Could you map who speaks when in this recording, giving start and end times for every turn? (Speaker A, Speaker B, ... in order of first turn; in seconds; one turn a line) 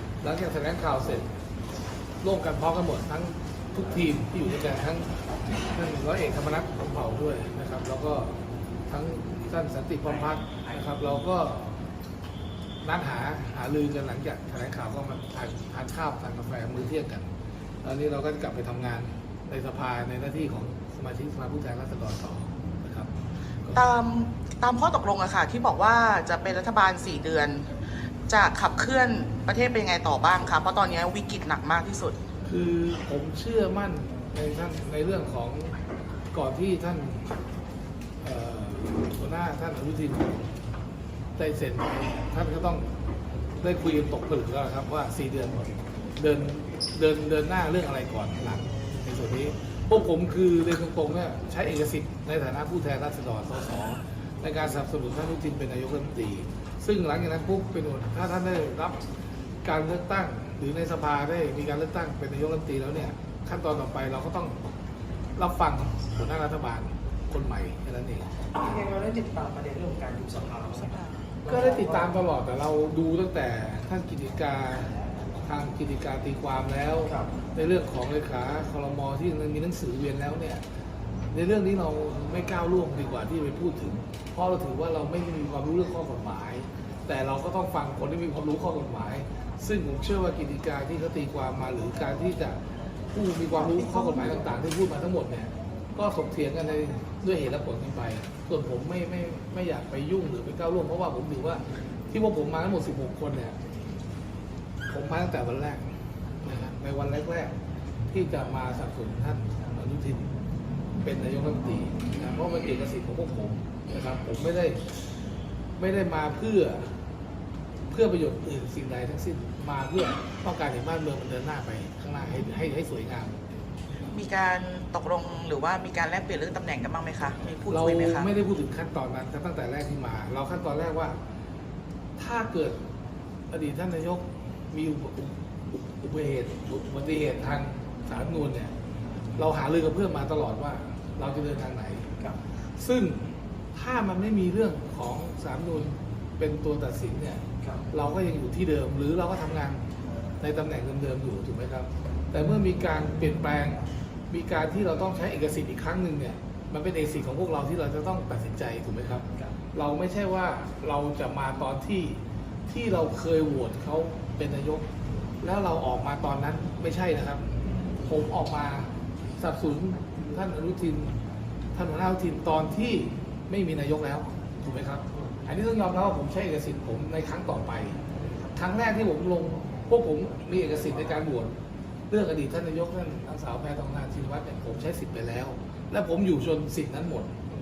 Speaker A: 0.2-1.3
Speaker A: 2.2-5.1
Speaker A: 5.7-8.4
Speaker A: 8.9-11.6
Speaker A: 12.8-17.3
Speaker A: 17.8-23.1
Speaker B: 23.7-27.7
Speaker B: 28.3-32.1
Speaker A: 32.4-35.8
Speaker A: 36.3-37.3
Speaker A: 38.2-40.5
Speaker A: 41.4-42.9
Speaker A: 43.6-59.0
Speaker A: 59.6-64.6
Speaker A: 65.3-68.3
Speaker C: 68.5-72.4
Speaker B: 70.8-71.2
Speaker A: 71.5-74.9
Speaker A: 75.5-80.6
Speaker C: 76.7-77.4
Speaker A: 81.3-92.6
Speaker A: 93.1-103.5
Speaker A: 104.9-105.9
Speaker A: 106.4-107.5
Speaker A: 108.1-110.3
Speaker A: 111.0-114.9
Speaker A: 115.8-116.9
Speaker A: 117.9-123.4
Speaker B: 124.1-128.3
Speaker A: 127.7-131.2
Speaker A: 132.2-132.8
Speaker A: 133.5-138.7
Speaker A: 139.3-142.1
Speaker A: 142.7-149.8
Speaker C: 147.6-147.9
Speaker A: 150.4-164.8
Speaker A: 165.4-171.2
Speaker A: 171.7-178.0
Speaker A: 178.5-181.5
Speaker A: 182.1-187.3